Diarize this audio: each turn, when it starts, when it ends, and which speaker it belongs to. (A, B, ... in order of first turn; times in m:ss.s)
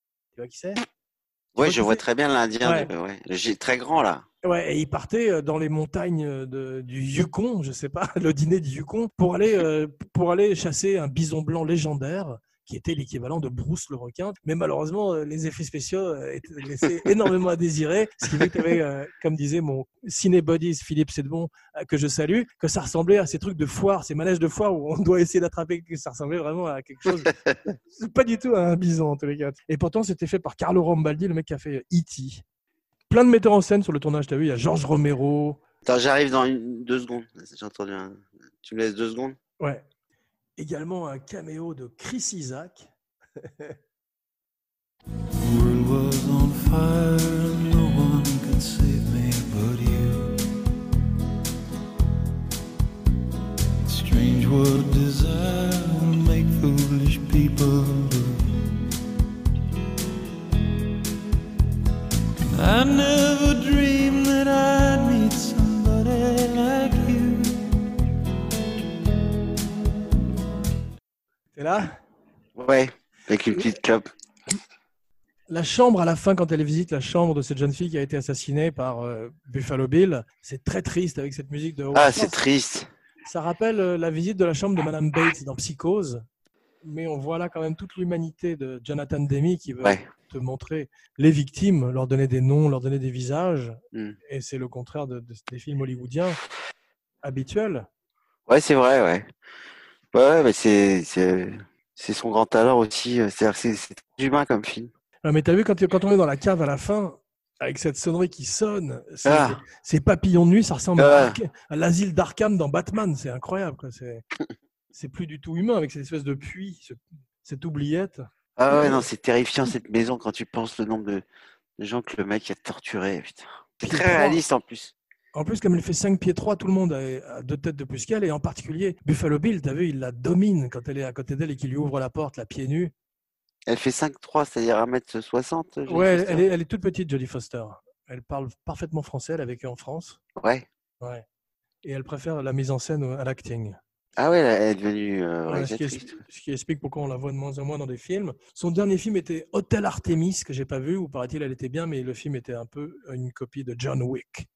0:00.4-0:00.8 A
0:01.5-0:04.2 B
0:01.6-0:02.0 A
0:02.6-0:02.9 A
0:04.4-0:32.4 A
0:33.1-0:35.6 A
0:35.8-0:39.4 B
0:39.6-0:39.8 A
0:40.6-0:42.9 A
0:43.4-0:43.7 A
0:45.4-0:50.3 C
0:53.9-0:58.5 C
1:02.5-1:07.7 C
1:11.6-1:11.9 A
1:12.6-1:14.0 B
1:15.5-1:22.3 A
1:21.9-1:22.9 B
1:23.2-1:26.2 A
1:26.8-1:36.4 A
1:37.2-1:37.9 A
1:38.5-1:39.3 B
1:40.1-1:44.9 B
1:45.2-1:54.2 A
1:49.2-1:49.6 B
1:51.0-1:51.4 B
1:54.9-1:59.0 A
1:58.6-2:01.2 B
2:01.8-2:04.9 B
2:03.8-2:04.4 A
2:05.3-2:12.9 A
2:13.7-2:16.4 B
2:15.9-2:20.2 A
2:20.4-2:20.6 B
2:21.8-2:23.8 A
2:24.2-2:26.2 B
2:25.5-2:34.5 A